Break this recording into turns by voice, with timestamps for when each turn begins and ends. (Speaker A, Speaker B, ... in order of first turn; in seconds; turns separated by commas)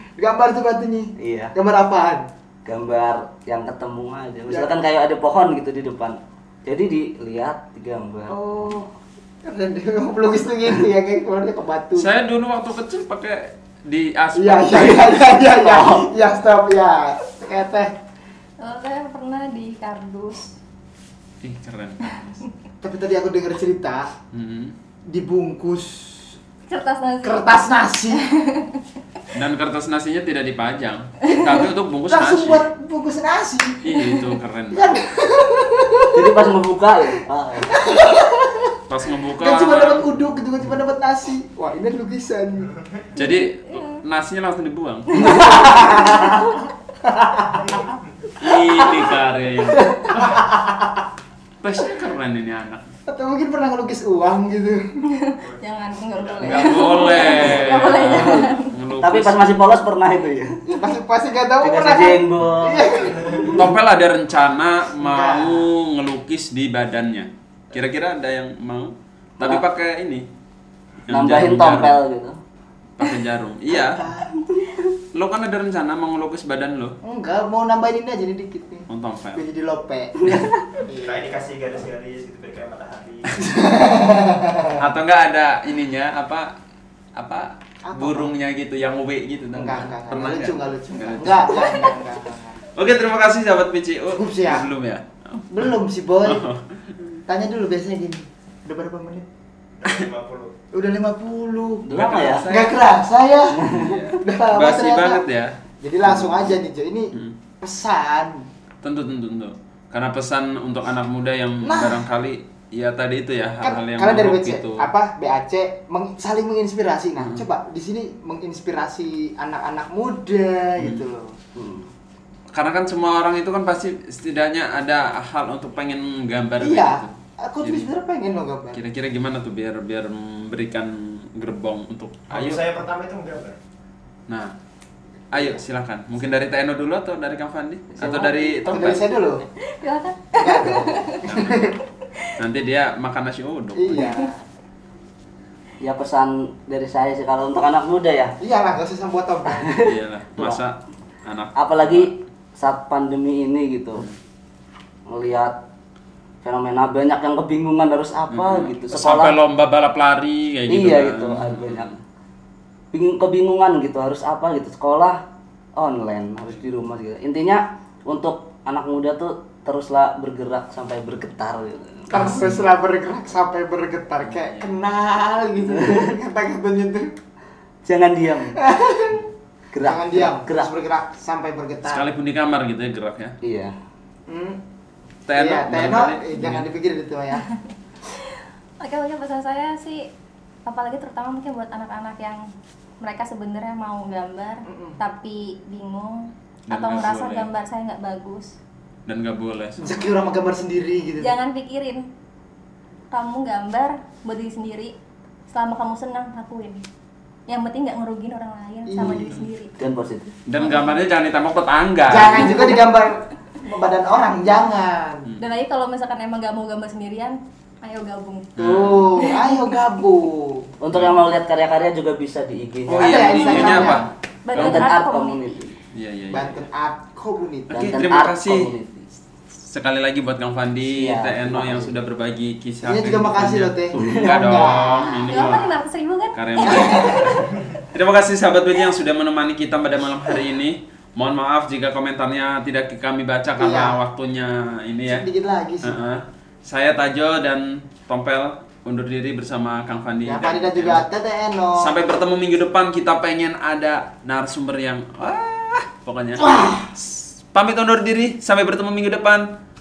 Speaker A: 0.2-2.2, Speaker B: 1.2-1.5, Speaker B: 2.6-8.4, Speaker A: 4.5-4.7, Speaker A: 8.3-8.9, Speaker A: 9.4-12.1, Speaker C: 12.0-15.2, Speaker A: 14.3-18.0, Speaker B: 14.8-16.1, Speaker D: 18.6-20.6, Speaker C: 21.4-22.4, Speaker A: 22.8-24.1, Speaker C: 24.3-24.7, Speaker A: 25.1-26.4, Speaker D: 26.7-27.5, Speaker A: 27.2-28.2, Speaker D: 28.1-28.8, Speaker C: 29.3-32.6, Speaker A: 32.1-34.2, Speaker C: 33.8-34.8, Speaker A: 34.7-36.4, Speaker B: 36.1-37.8, Speaker A: 37.7-38.8, Speaker C: 38.9-40.1, Speaker A: 39.4-42.7, Speaker C: 43.1-46.2, Speaker D: 43.2-44.0, Speaker A: 45.4-47.8, Speaker E: 47.6-48.0, Speaker C: 48.4-50.4, Speaker B: 49.7-50.1, Speaker A: 50.1-51.0, Speaker C: 51.6-52.9, Speaker A: 53.1-54.8, Speaker D: 55.1-58.7, Speaker E: 55.4-57.3, Speaker C: 56.4-59.5, Speaker B: 57.8-58.4, Speaker B: 59.0-60.6, Speaker A: 60.6-63.7, Speaker B: 61.6-63.1, Speaker E: 63.2-63.5, Speaker C: 63.5-70.2, Speaker A: 65.0-65.7, Speaker C: 71.0-72.0, Speaker B: 71.1-72.4, Speaker C: 73.0-74.1, Speaker A: 73.7-74.3, Speaker B: 74.5-74.8, Speaker C: 75.1-77.0, Speaker A: 77.0-81.4, Speaker C: 78.9-79.4, Speaker E: 81.0-83.4, Speaker A: 83.4-84.8, Speaker C: 84.8-86.5, Speaker C: 87.2-91.7, Speaker A: 87.8-88.3, Speaker A: 89.5-92.6, Speaker C: 92.7-95.6, Speaker A: 94.1-94.7, Speaker A: 95.5-96.5, Speaker C: 96.2-97.2, Speaker A: 97.3-99.3, Speaker E: 99.8-100.5, Speaker A: 100.7-101.9, Speaker B: 101.8-102.4, Speaker C: 101.9-102.8, Speaker A: 102.4-105.2, Speaker B: 103.6-104.0, Speaker C: 103.7-105.5, Speaker A: 105.8-108.5, Speaker C: 106.0-106.5, Speaker C: 108.8-114.9, Speaker A: 111.6-112.0, Speaker A: 113.6-121.4, Speaker C: 117.2-117.5, Speaker C: 120.8-121.0, Speaker B: 121.6-121.9, Speaker C: 122.5-127.9, Speaker A: 126.6-128.8, Speaker C: 128.7-132.7, Speaker E: 132.3-133.6, Speaker C: 135.3-139.0, Speaker B: 138.0-138.9, Speaker A: 138.7-139.4, Speaker D: 139.7-141.2, Speaker A: 140.3-141.7, Speaker C: 141.2-141.7, Speaker C: 142.4-144.1, Speaker A: 143.8-144.4, Speaker B: 145.8-148.3, Speaker A: 148.4-149.8, Speaker B: 149.5-150.6, Speaker C: 149.8-152.1, Speaker B: 151.6-154.1, Speaker B: 155.1-155.6, Speaker B: 156.4-159.3, Speaker C: 158.3-161.9, Speaker B: 160.7-162.0, Speaker B: 162.9-165.2, Speaker B: 165.8-172.3, Speaker C: 172.1-172.7, Speaker A: 172.1-177.1, Speaker C: 174.2-174.8, Speaker B: 175.7-176.1, Speaker B: 177.8-178.6, Speaker A: 178.6-179.2, Speaker B: 179.7-180.7, Speaker A: 179.8-182.1, Speaker C: 181.8-183.4, Speaker B: 183.4-183.7, Speaker A: 184.3-184.6, Speaker C: 185.2-186.7, Speaker A: 185.4-187.4, Speaker D: 187.5-190.1, Speaker D: 190.7-192.4, Speaker D: 193.0-198.6, Speaker A: 194.7-195.0, Speaker C: 196.7-197.5, Speaker C: 199.1-200.0, Speaker A: 199.8-201.3, Speaker D: 201.2-202.0, Speaker D: 203.1-204.9, Speaker D: 205.5-206.8, Speaker D: 207.5-209.8, Speaker A: 208.9-209.4, Speaker C: 209.0-209.4, Speaker B: 209.8-210.3, Speaker C: 210.5-212.7, Speaker A: 212.1-215.3, Speaker D: 215.4-219.7, Speaker C: 218.6-219.1, Speaker A: 218.6-220.7, Speaker B: 220.8-225.8, Speaker C: 220.9-221.2, Speaker C: 222.9-224.9, Speaker A: 222.9-224.1, Speaker D: 223.5-225.5, Speaker C: 225.9-226.7, Speaker A: 226.3-228.0, Speaker C: 227.7-228.7, Speaker B: 227.7-229.1, Speaker C: 229.7-235.8, Speaker B: 230.8-232.0, Speaker A: 232.8-235.5, Speaker B: 234.0-234.3, Speaker D: 235.3-237.4, Speaker C: 236.3-245.2, Speaker A: 236.6-237.4, Speaker A: 243.6-244.0, Speaker A: 245.1-246.0, Speaker C: 245.8-251.0, Speaker A: 250.2-251.9, Speaker C: 251.8-259.5, Speaker A: 256.4-256.9